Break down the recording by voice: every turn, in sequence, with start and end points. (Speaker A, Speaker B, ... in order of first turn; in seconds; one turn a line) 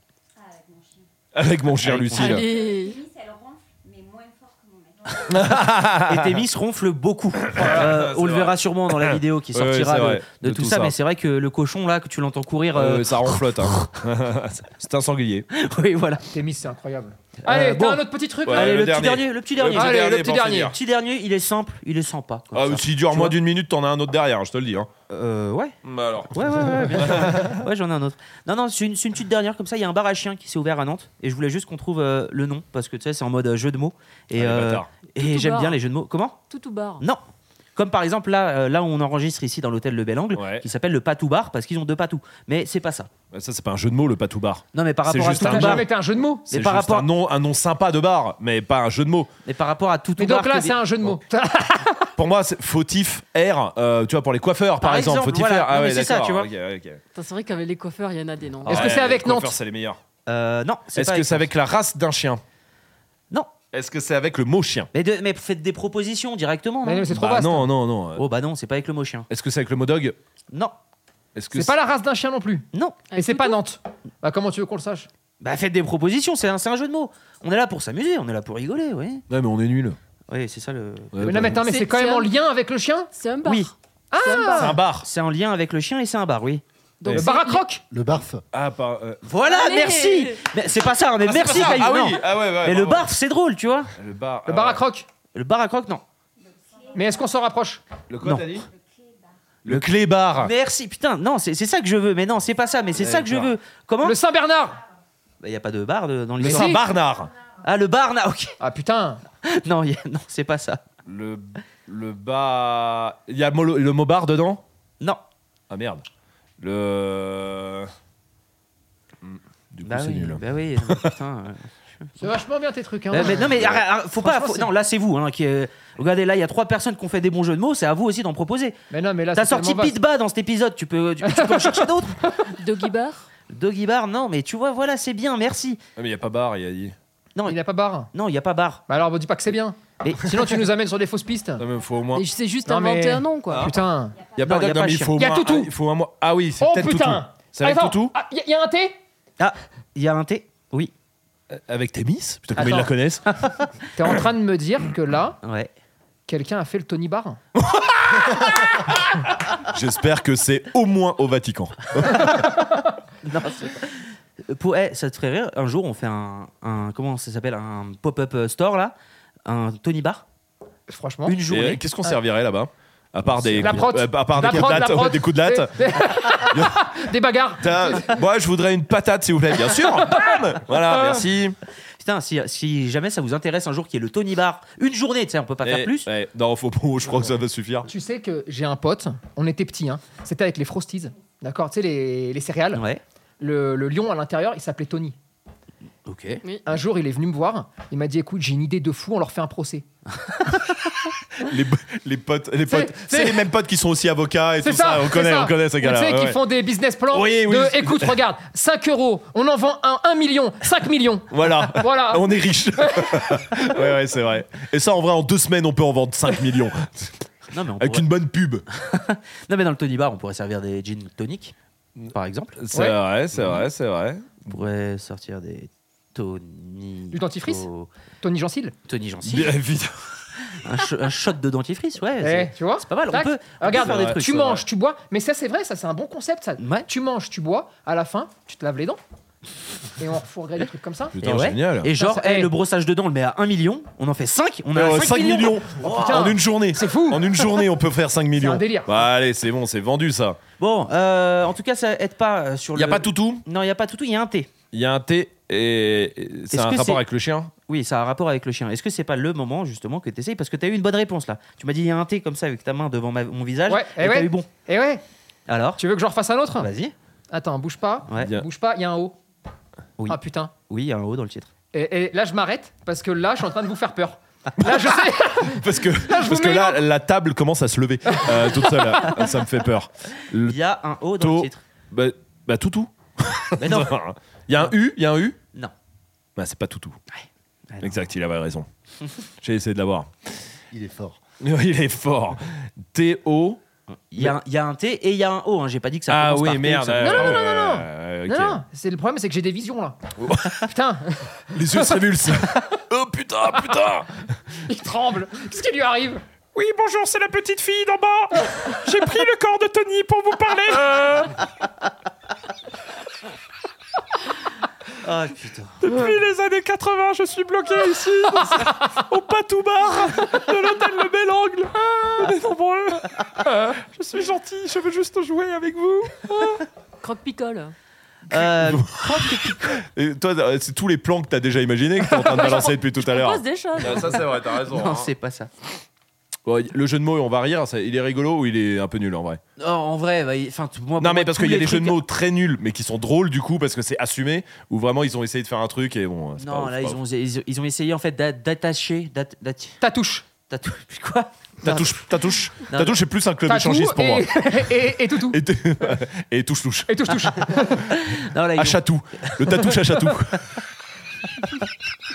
Speaker A: 0.4-1.1
Speaker B: 1.4-2.5
Speaker C: 1.8-2.4
Speaker D: 2.1-3.0
Speaker A: 2.4-5.5
Speaker B: 5.3-6.4
Speaker C: 6.0-13.9
Speaker B: 7.4-10.9
Speaker B: 12.7-15.5
Speaker C: 15.5-16.3
Speaker E: 16.3-18.8
Speaker C: 17.4-23.4
Speaker B: 18.4-20.8
Speaker E: 19.7-20.7
Speaker B: 22.5-24.9
Speaker C: 25.1-25.8
Speaker B: 25.8-27.6
Speaker C: 26.3-36.4
Speaker B: 34.3-34.9
Speaker D: 35.1-35.8
Speaker D: 36.5-37.0
Speaker C: 37.8-43.1
Speaker B: 40.4-40.6
Speaker B: 43.3-45.9
Speaker C: 44.7-45.9
Speaker E: 45.1-46.5
Speaker C: 46.5-47.1
Speaker B: 46.5-49.3
Speaker C: 49.5-50.8
Speaker E: 50.2-52.1
Speaker B: 52.2-57.0
Speaker C: 54.8-56.5
Speaker D: 57.1-58.9
Speaker E: 58.6-59.5
Speaker B: 58.6-60.0
Speaker C: 60.3-61.5
Speaker B: 60.9-62.4
Speaker B: 63.7-64.9
Speaker C: 64.9-67.1
Speaker E: 66.8-67.7
Speaker B: 67.1-68.2
Speaker C: 68.2-69.3
Speaker B: 69.3-70.2
Speaker B: 71.3-71.8
Speaker E: 71.5-75.1
Speaker D: 73.1-73.6
Speaker C: 75.4-79.2
Speaker B: 79.3-80.0
Speaker C: 80.3-81.1
Speaker B: 81.1-81.7
Speaker E: 81.2-83.1
Speaker D: 81.6-82.3
Speaker D: 83.1-84.8
Speaker C: 83.4-83.7
Speaker E: 84.1-84.8
Speaker B: 84.5-85.1
Speaker C: 85.0-86.6
Speaker D: 87.0-87.7
Speaker B: 87.0-87.3
Speaker E: 87.1-87.8
Speaker F: 87.9-88.4
Speaker B: 88.5-89.2
Speaker C: 89.3-93.9
Speaker D: 89.4-90.5
Speaker B: 91.2-93.1
Speaker B: 94.0-94.8
Speaker E: 94.5-95.1
Speaker C: 95.3-96.0
Speaker A: 96.4-97.3
Speaker E: 96.9-97.8
Speaker B: 98.1-98.7
Speaker A: 98.7-99.3
Speaker B: 99.7-100.5
Speaker C: 99.7-104.2
Speaker B: 103.0-103.5
Speaker E: 104.0-104.8
Speaker C: 105.4-106.8
Speaker B: 106.4-107.3
Speaker E: 106.4-106.8
Speaker C: 107.6-108.6
Speaker E: 108.6-109.2
Speaker C: 109.4-110.8
Speaker B: 111.0-114.6
Speaker B: 115.7-116.0
Speaker B: 116.6-117.9
Speaker B: 119.2-121.1
Speaker C: 119.8-122.2
Speaker E: 122.2-124.7
Speaker C: 123.1-128.8
Speaker B: 123.2-123.8
Speaker E: 128.9-129.9
Speaker C: 129.3-132.2
Speaker E: 131.2-131.9
Speaker D: 132.6-133.3
Speaker C: 133.5-135.8
Speaker B: 136.0-136.9
Speaker E: 137.5-138.1
Speaker C: 138.1-138.8
Speaker E: 138.9-141.7
Speaker C: 140.0-140.3
Speaker B: 141.6-142.2
Speaker D: 142.1-143.7
Speaker E: 142.7-144.2
Speaker B: 144.4-148.2
Speaker C: 144.4-145.2
Speaker E: 145.2-145.7
Speaker E: 146.6-149.0
Speaker C: 149.4-150.9
Speaker B: 151.5-153.3
Speaker E: 152.6-152.9
Speaker E: 153.9-155.4
Speaker C: 155.4-155.7
Speaker E: 156.3-157.4
Speaker B: 157.7-158.8
Speaker B: 159.6-162.4
Speaker E: 162.1-162.8
Speaker C: 163.2-168.9
Speaker C: 169.5-170.2
Speaker E: 170.9-171.4
Speaker C: 171.3-171.8
Speaker B: 171.5-176.9
Speaker F: 173.3-174.9
Speaker E: 173.6-178.1
Speaker B: 177.6-181.6
Speaker C: 182.0-186.1
Speaker B: 185.6-187.9
Speaker E: 187.9-192.8
Speaker C: 192.7-193.0
Speaker E: 193.4-195.2
Speaker C: 196.1-196.4
Speaker E: 196.7-199.9
Speaker B: 201.4-206.4
Speaker E: 202.7-203.4
Speaker E: 204.6-213.4
Speaker B: 207.1-208.2
Speaker B: 211.3-217.2
Speaker C: 217.5-218.1
Speaker B: 217.8-218.7
Speaker C: 218.7-221.5
Speaker B: 222.0-224.3
Speaker C: 222.1-222.6
Speaker E: 222.7-223.0
Speaker C: 223.3-223.6
Speaker C: 224.4-227.9
Speaker E: 227.1-227.7
Speaker E: 228.2-228.8
Speaker C: 228.9-229.6
Speaker B: 229.2-230.8
Speaker C: 230.6-234.6
Speaker E: 232.2-239.0
Speaker B: 233.7-234.6
Speaker C: 236.6-236.9
Speaker E: 240.0-241.2
Speaker B: 241.1-241.9
Speaker C: 241.2-246.1
Speaker E: 241.9-242.5
Speaker B: 244.7-250.4
Speaker E: 245.8-247.4
Speaker E: 248.4-249.0
Speaker C: 250.6-254.5
Speaker B: 252.8-253.4
Speaker B: 254.7-257.5
Speaker C: 256.5-257.0
Speaker C: 257.7-264.5
Speaker E: 263.7-265.0
Speaker C: 265.5-265.8
Speaker E: 265.8-266.7
Speaker C: 266.6-266.9
Speaker E: 267.3-269.2
Speaker B: 268.2-268.5
Speaker C: 270.0-271.5
Speaker E: 270.1-270.5
Speaker E: 271.7-276.8
Speaker B: 275.4-280.6
Speaker E: 278.1-278.8
Speaker C: 280.4-281.6
Speaker B: 281.2-285.4
Speaker C: 283.6-283.9
Speaker B: 286.4-287.0
Speaker C: 287.1-288.0
Speaker B: 287.8-288.7
Speaker B: 289.4-290.3
Speaker F: 290.7-291.2
Speaker B: 291.4-293.6
Speaker C: 294.1-297.4
Speaker B: 296.1-298.6
Speaker E: 297.0-300.0
Speaker B: 300.2-300.7
Speaker E: 300.6-302.0
Speaker B: 301.5-304.2
Speaker E: 304.7-306.2
Speaker B: 306.6-311.4
Speaker C: 315.0-315.8
Speaker B: 315.8-326.7
Speaker D: 327.0-327.7
Speaker C: 328.3-329.8
Speaker B: 328.3-335.1
Speaker D: 332.4-334.3
Speaker C: 333.9-335.5
Speaker B: 336.5-339.4
Speaker C: 339.6-342.0
Speaker B: 341.0-347.0
Speaker C: 346.4-349.8
Speaker E: 349.8-350.2
Speaker C: 350.5-352.0
Speaker B: 351.6-354.4
Speaker C: 352.7-353.0
Speaker E: 353.5-355.4
Speaker B: 355.3-357.6
Speaker E: 356.9-357.9
Speaker C: 357.9-359.6
Speaker B: 358.6-360.4